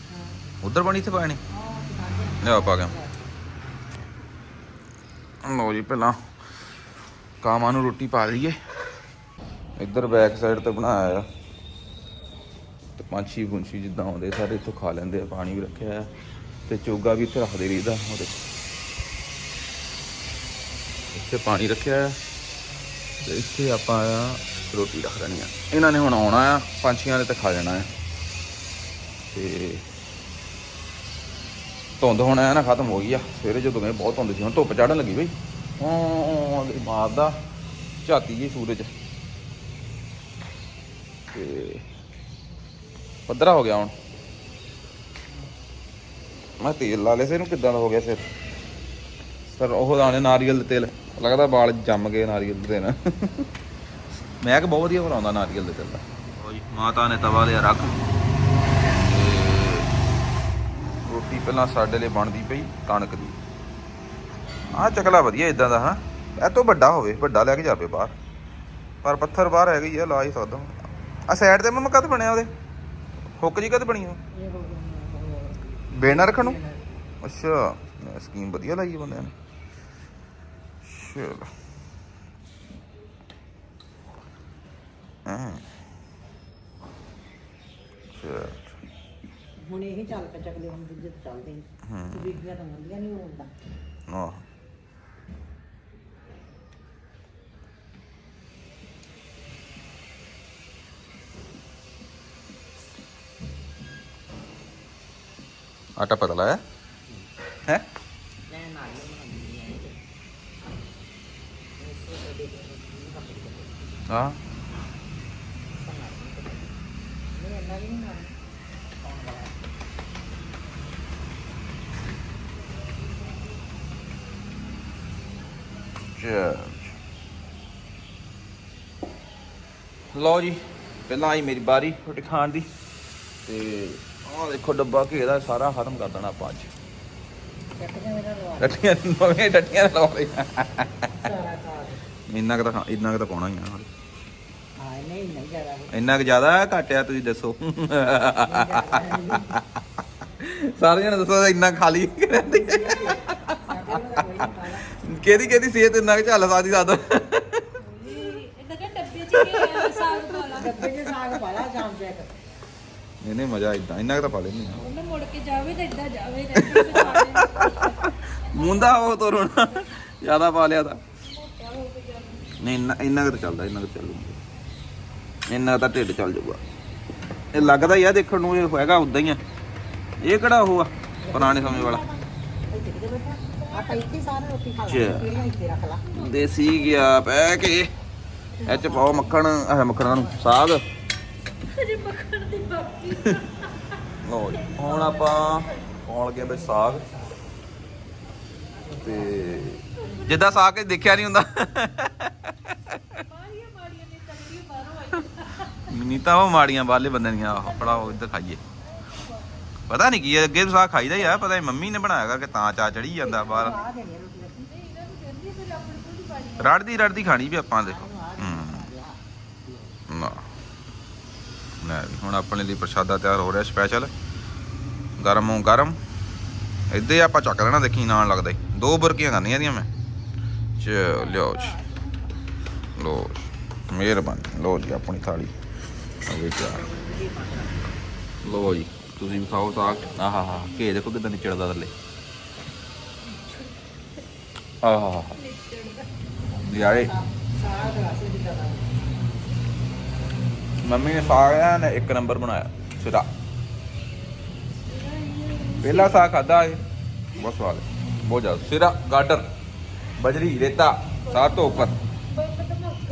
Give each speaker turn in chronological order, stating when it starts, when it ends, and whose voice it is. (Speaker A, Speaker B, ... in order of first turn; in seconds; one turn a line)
Speaker A: 0.1-0.4
Speaker B: 0.6-1.4
Speaker A: 1.5-3.3
Speaker B: 2.4-2.9
Speaker B: 5.4-6.2
Speaker B: 7.4-8.6
Speaker B: 9.8-11.3
Speaker B: 13.0-16.1
Speaker B: 16.7-18.4
Speaker B: 21.1-22.2
Speaker B: 23.2-27.9
Speaker B: 29.3-29.8
Speaker B: 32.0-37.4
Speaker B: 38.0-38.9
Speaker B: 41.3-41.8
Speaker B: 43.3-43.9
Speaker B: 46.6-48.2
Speaker B: 49.5-53.5
Speaker B: 54.4-58.0
Speaker B: 59.0-59.9
Speaker B: 61.0-63.4
Speaker B: 64.7-68.1
Speaker B: 69.0-72.5
Speaker B: 73.4-74.2
Speaker A: 74.3-77.0
Speaker B: 75.9-76.6
Speaker B: 77.2-79.3
Speaker B: 80.8-81.5
Speaker B: 85.2-85.7
Speaker B: 88.2-88.7
Speaker A: 89.6-93.5
Speaker B: 91.8-92.4
Speaker B: 94.1-94.4
Speaker B: 106.0-106.6
Speaker A: 108.5-110.0
Speaker A: 111.8-113.8
Speaker B: 114.1-114.4
Speaker A: 115.7-116.7
Speaker A: 117.3-118.3
Speaker A: 119.0-119.7
Speaker B: 126.2-126.9
Speaker B: 130.1-132.7
Speaker B: 133.4-136.7
Speaker A: 137.8-138.8
Speaker B: 138.6-141.1
Speaker A: 141.1-142.0
Speaker B: 142.3-143.9
Speaker A: 144.8-146.1
Speaker B: 145.9-149.8
Speaker A: 148.4-149.6
Speaker B: 150.4-153.8
Speaker A: 152.3-155.6
Speaker B: 154.6-157.6
Speaker C: 157.8-160.7
Speaker B: 159.5-160.1
Speaker A: 160.5-162.3
Speaker B: 163.2-164.9
Speaker C: 164.8-168.0
Speaker B: 166.5-171.0
Speaker C: 168.5-168.9
Speaker C: 171.2-172.6
Speaker B: 172.6-174.4
Speaker B: 175.5-176.6
Speaker B: 177.5-179.4
Speaker A: 177.5-178.0
Speaker B: 180.2-182.0
Speaker A: 181.2-186.0
Speaker B: 184.9-185.3
Speaker B: 186.1-187.9
Speaker A: 188.6-189.4
Speaker B: 188.7-190.8
Speaker A: 190.1-190.4
Speaker C: 191.7-193.7
Speaker B: 194.2-197.1
Speaker C: 194.6-195.7
Speaker A: 196.4-197.3
Speaker A: 198.8-200.1
Speaker B: 199.0-202.5
Speaker C: 200.1-200.5
Speaker C: 203.1-205.8
Speaker B: 205.9-208.6
Speaker C: 207.5-208.2
Speaker C: 209.1-209.4
Speaker B: 209.9-213.8
Speaker A: 213.2-214.7
Speaker C: 214.7-216.8
Speaker B: 216.6-218.9
Speaker A: 217.8-219.9
Speaker B: 220.1-220.5
Speaker B: 221.8-224.1
Speaker B: 225.2-226.0
Speaker B: 226.9-229.9
Speaker B: 230.8-231.8
Speaker B: 232.9-235.5
Speaker B: 236.2-236.9
Speaker A: 236.6-237.8
Speaker B: 238.4-241.9
Speaker A: 239.7-240.2
Speaker B: 244.8-245.4
Speaker C: 245.3-246.1
Speaker B: 246.6-247.1
Speaker A: 246.8-249.0
Speaker B: 250.8-253.3
Speaker C: 254.8-256.3
Speaker B: 255.8-256.8
Speaker B: 257.3-259.4
Speaker B: 260.2-262.0
Speaker C: 261.4-261.8